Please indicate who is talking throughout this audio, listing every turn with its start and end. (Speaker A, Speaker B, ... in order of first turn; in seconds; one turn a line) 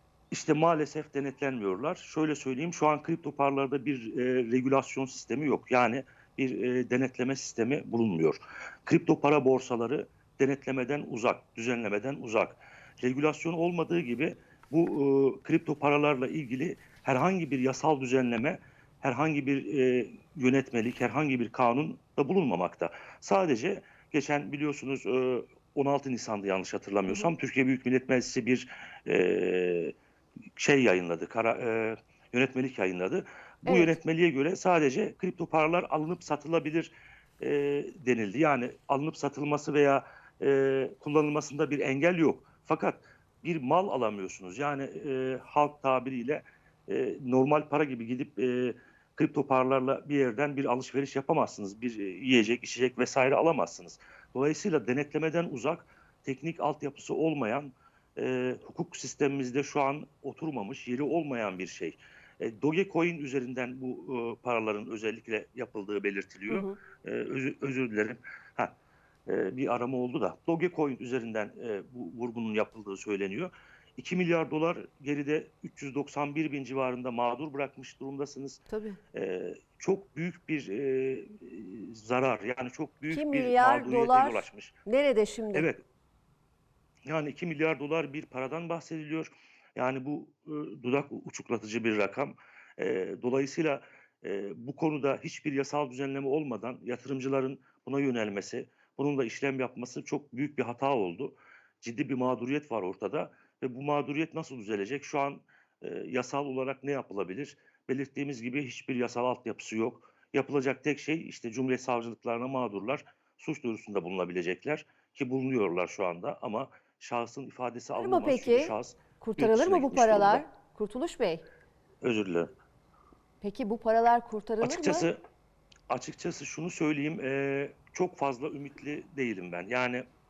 Speaker A: 0.3-29.9
Speaker A: 30.6-68.7
Speaker B: 33.7-34.0
Speaker B: 66.5-66.8
Speaker A: 69.3-78.6
Speaker B: 78.7-79.0
Speaker A: 79.1-84.7
Speaker B: 83.1-85.7
Speaker A: 85.5-85.8
Speaker A: 87.1-120.4
Speaker B: 118.0-121.5
Speaker A: 122.0-122.5
Speaker B: 123.4-125.1
Speaker A: 124.6-125.2
Speaker A: 125.9-130.0